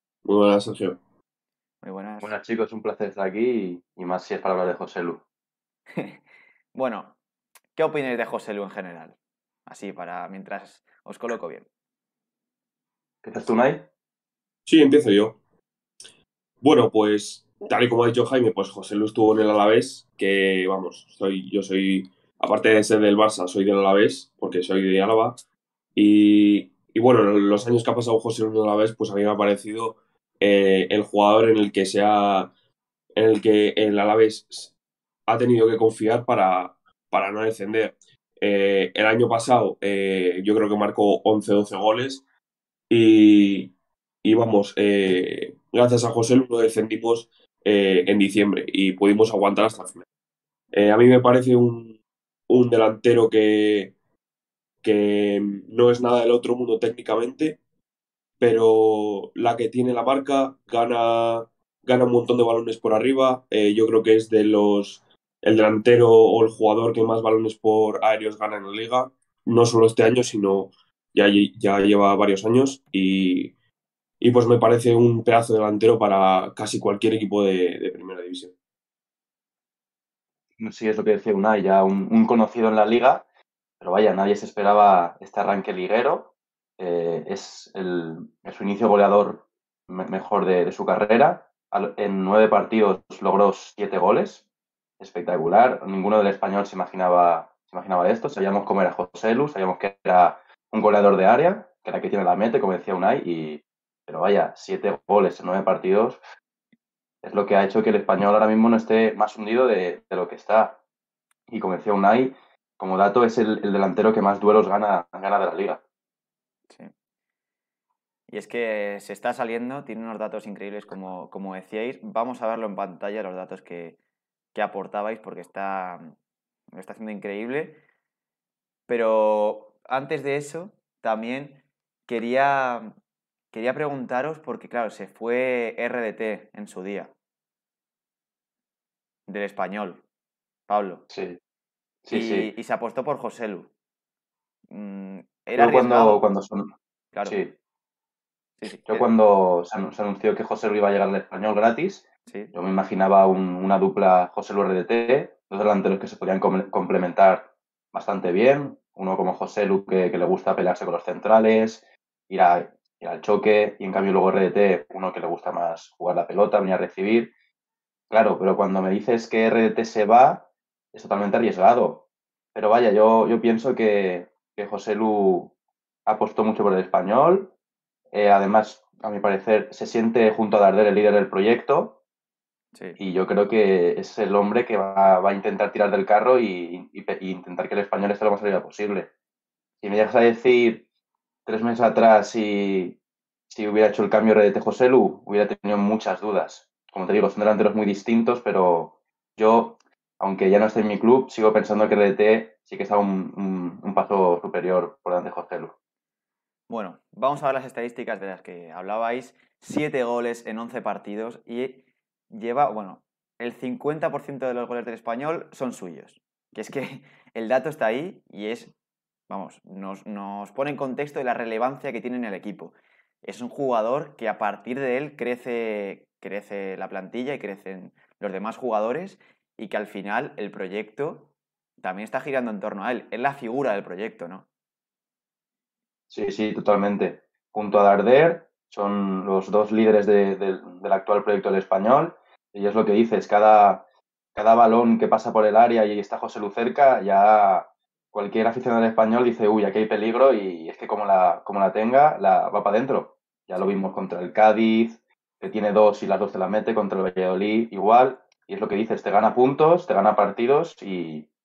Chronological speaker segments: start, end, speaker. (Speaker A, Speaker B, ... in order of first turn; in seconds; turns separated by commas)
Speaker A: 0.2-1.0, Speaker B: 1.8-2.3, Speaker C: 2.2-5.2, Speaker B: 5.9-6.2, Speaker B: 6.7-7.2, Speaker B: 7.8-11.7, Speaker C: 13.2-13.8, Speaker A: 14.7-15.4, Speaker A: 16.6-25.4, Speaker A: 25.9-32.5, Speaker A: 33.1-34.7, Speaker A: 35.3-42.2, Speaker A: 42.9-43.7, Speaker A: 44.2-50.0, Speaker A: 50.7-52.0, Speaker A: 52.5-53.9, Speaker A: 54.8-57.6, Speaker A: 58.4-73.5, Speaker A: 74.2-78.5, Speaker C: 80.6-83.2, Speaker C: 83.8-94.4, Speaker C: 95.0-106.2, Speaker C: 107.2-110.8, Speaker C: 111.5-115.8, Speaker B: 118.3-124.0, Speaker B: 124.5-126.1, Speaker B: 126.7-127.8, Speaker B: 128.9-132.9, Speaker B: 133.5-137.1, Speaker B: 139.3-140.0, Speaker B: 140.7-141.0, Speaker C: 141.1-141.4, Speaker C: 142.0-142.5, Speaker B: 142.1-143.7, Speaker B: 144.7-146.2, Speaker C: 145.6-146.7, Speaker B: 147.1-147.4, Speaker C: 147.2-147.5, Speaker B: 148.6-149.1, Speaker C: 148.8-167.3, Speaker B: 152.3-152.5, Speaker C: 168.1-175.5, Speaker C: 176.1-177.5, Speaker C: 178.1-182.0, Speaker C: 183.0-189.1, Speaker C: 189.8-190.8, Speaker C: 191.4-193.0, Speaker C: 193.5-205.7, Speaker B: 206.7-218.7, Speaker B: 219.3-234.4, Speaker C: 236.1-243.8, Speaker C: 244.3-261.3